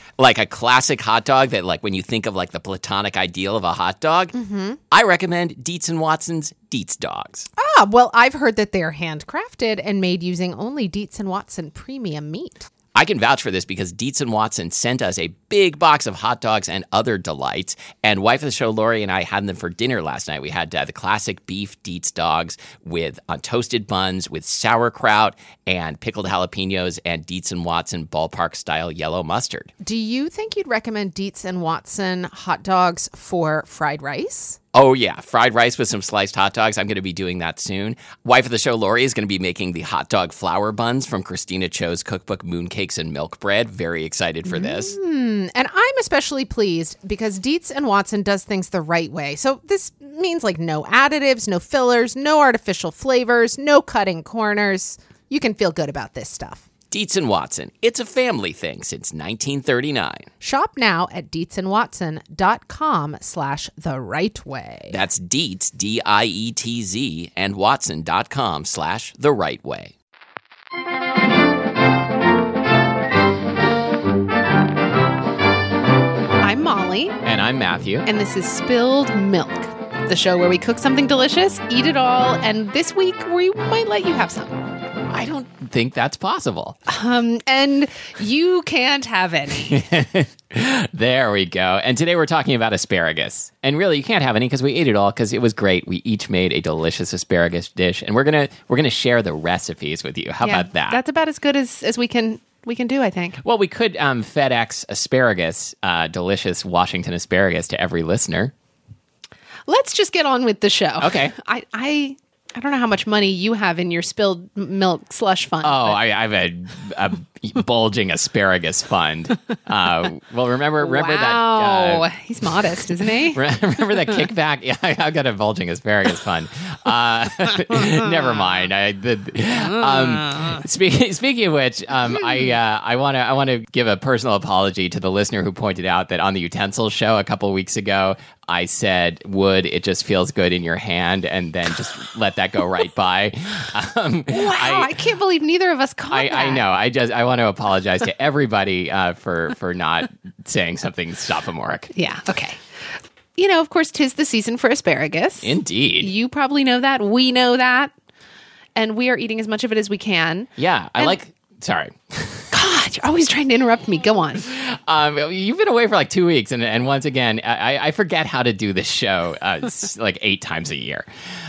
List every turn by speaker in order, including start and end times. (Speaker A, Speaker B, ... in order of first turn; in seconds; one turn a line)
Speaker A: 0.2-4.3
Speaker B: 4.3-4.8
Speaker A: 4.9-7.5
Speaker B: 7.6-12.7
Speaker A: 12.9-29.7
Speaker B: 29.8-34.6
Speaker A: 34.7-45.0
Speaker B: 44.5-56.6
Speaker A: 56.9-60.2
Speaker B: 60.4-65.0
Speaker A: 64.9-69.9
Speaker B: 76.4-77.2
Speaker A: 77.2-78.0
Speaker B: 78.0-84.6
Speaker A: 85.1-86.8
Speaker B: 86.9-89.8
Speaker A: 89.6-101.0
Speaker B: 100.4-103.4
Speaker A: 103.4-108.5
Speaker B: 109.7-116.0
Speaker A: 111.0-111.3
Speaker A: 115.6-122.1
Speaker B: 120.8-123.4
Speaker A: 123.3-145.0
Speaker B: 144.3-146.6
Speaker A: 146.1-151.9
Speaker B: 151.9-152.6
Speaker B: 153.3-157.9
Speaker A: 155.4-156.1
Speaker B: 158.8-161.2
Speaker A: 160.6-162.5
Speaker B: 162.5-164.4
Speaker A: 164.5-171.1